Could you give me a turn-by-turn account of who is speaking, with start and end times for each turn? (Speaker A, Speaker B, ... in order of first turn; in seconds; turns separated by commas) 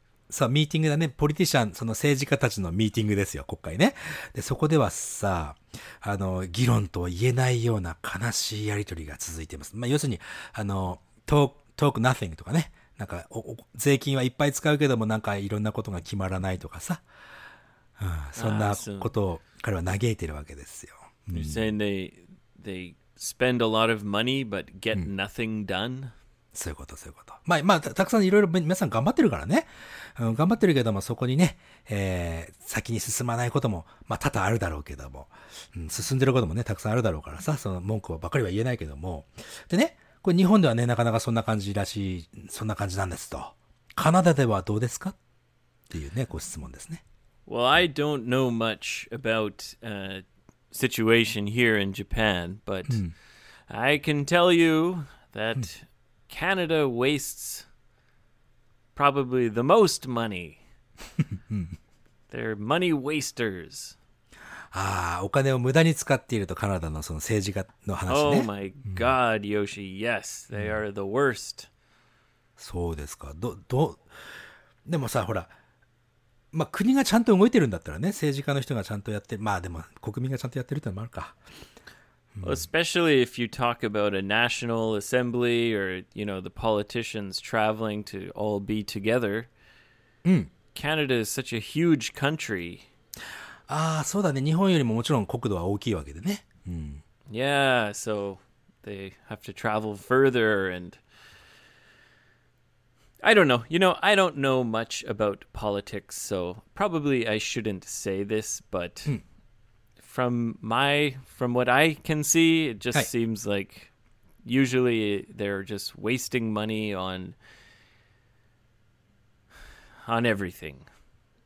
Speaker A: 0.3-17.0, Speaker A: 18.0-21.7, Speaker B: 18.4-19.2, Speaker B: 21.3-26.1, Speaker A: 26.5-45.2, Speaker A: 45.9-47.0, Speaker B: 47.5-53.0, Speaker B: 53.7-57.7, Speaker B: 59.0-60.6, Speaker A: 61.5-61.8, Speaker B: 62.3-64.0, Speaker A: 64.7-69.1, Speaker B: 68.1-71.7, Speaker A: 72.6-74.1, Speaker A: 74.8-75.5, Speaker A: 76.5-81.4, Speaker A: 82.3-82.7, Speaker B: 82.4-89.5, Speaker A: 90.2-90.5, Speaker B: 90.7-92.8, Speaker A: 93.7-97.0, Speaker B: 97.3-101.0, Speaker B: 103.2-109.2, Speaker B: 110.0-113.9, Speaker B: 114.4-117.4, Speaker B: 120.0-120.9